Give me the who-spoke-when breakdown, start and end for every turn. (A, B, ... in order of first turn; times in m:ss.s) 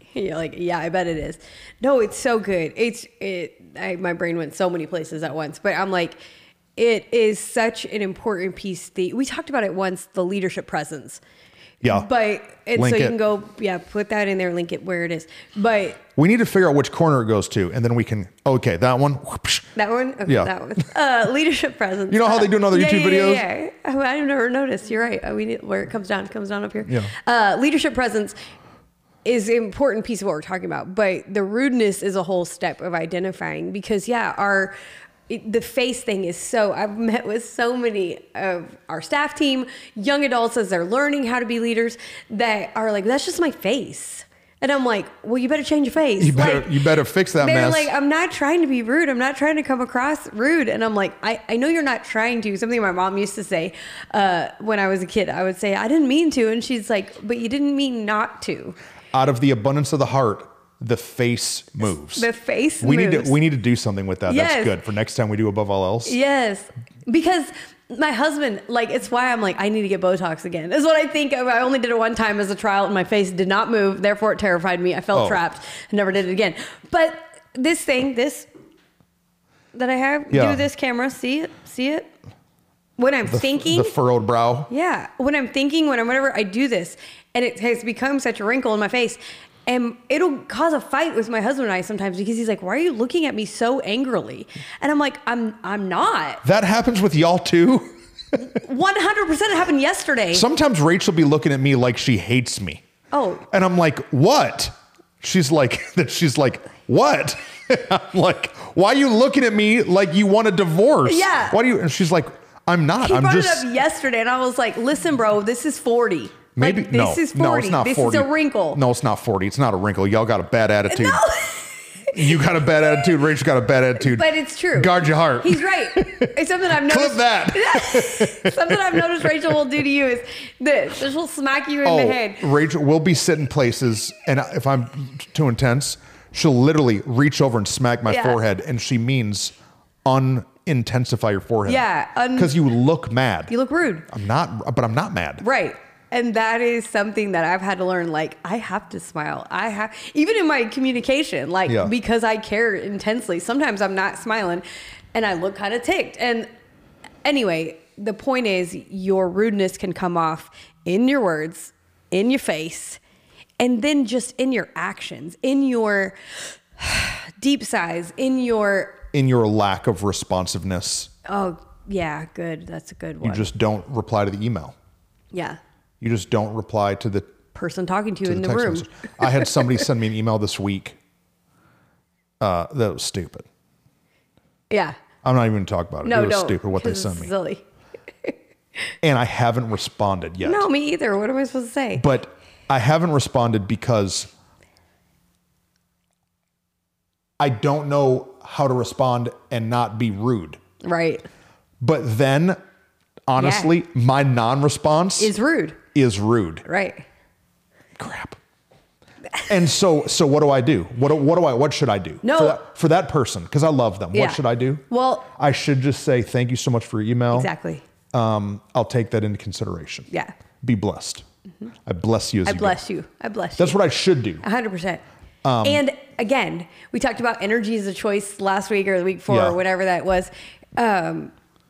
0:00.1-0:06.2 A
0:06.8-0:11.2 A
0:11.8-0:12.1 B
0:11.8-0:16.0 A
0:12.7-0:13.2 B
0:16.2-0:19.7 B
0:19.8-0:28.4 A
0:20.3-0:20.5 B
0:22.1-0:23.4 B
0:26.9-0:27.1 B
0:29.2-0:34.8 A
0:35.3-0:46.8 A
0:46.2-0:47.9 B
0:47.4-0:58.8 A
0:59.1-1:02.3 B
1:02.2-1:03.4 A
1:02.8-1:06.2 B
1:04.3-1:04.8 A
1:06.0-1:18.5 A
1:15.1-1:15.4 B
1:19.7-1:22.1 A
1:20.3-1:20.6 B
1:23.0-1:24.0 A
1:23.3-1:24.7 B
1:24.7-1:36.4 A
1:36.4-1:38.4 B
1:38.4-1:40.4 A
1:40.3-1:42.8 B
1:43.1-1:43.5 A
1:43.5-1:53.7 B
1:51.0-1:51.6 A
1:53.0-1:58.8 A
1:56.6-2:01.2 B
2:00.9-2:02.4 A
2:02.1-2:09.6 B
2:04.0-2:12.5 A
2:11.8-2:23.5 B
2:18.1-2:18.4 A
2:21.7-2:22.6 A
2:23.5-2:24.1 A
2:24.1-2:25.4 B
2:25.4-2:36.5 A
2:31.7-2:31.9 B
2:37.2-2:43.0 A
2:43.6-2:49.0 A
2:49.1-2:51.1 B
2:51.3-2:53.5 A
2:53.2-2:54.8 B
2:55.3-2:55.6 A
2:56.0-2:57.3 B
2:57.5-2:59.5 A
2:58.2-3:01.0 B
3:02.4-3:03.5 B
3:04.7-3:05.0 A
3:05.2-3:07.3 B
3:06.0-3:07.6 A
3:09.0-3:10.7 B
3:10.4-3:12.1 A
3:12.0-3:14.3 B
3:17.4-3:20.6 B
3:20.8-3:21.3 A
3:21.8-3:22.6 B
3:23.3-3:25.3 B
3:23.4-3:23.7 A
3:25.2-3:25.8 A
3:25.9-3:26.6 B
3:26.6-3:27.0 A
3:28.0-3:28.4 B
3:29.4-3:37.5 B
3:32.2-3:32.6 A
3:34.1-3:35.3 A
3:37.3-3:37.8 A
3:38.1-3:40.1 B
3:40.6-3:41.2 B
3:41.8-3:42.8 B
3:42.4-3:43.8 A
3:43.6-3:44.4 B
3:44.4-3:45.0 A
3:45.4-3:45.8 B
3:45.6-3:51.3 A
3:49.3-3:49.6 B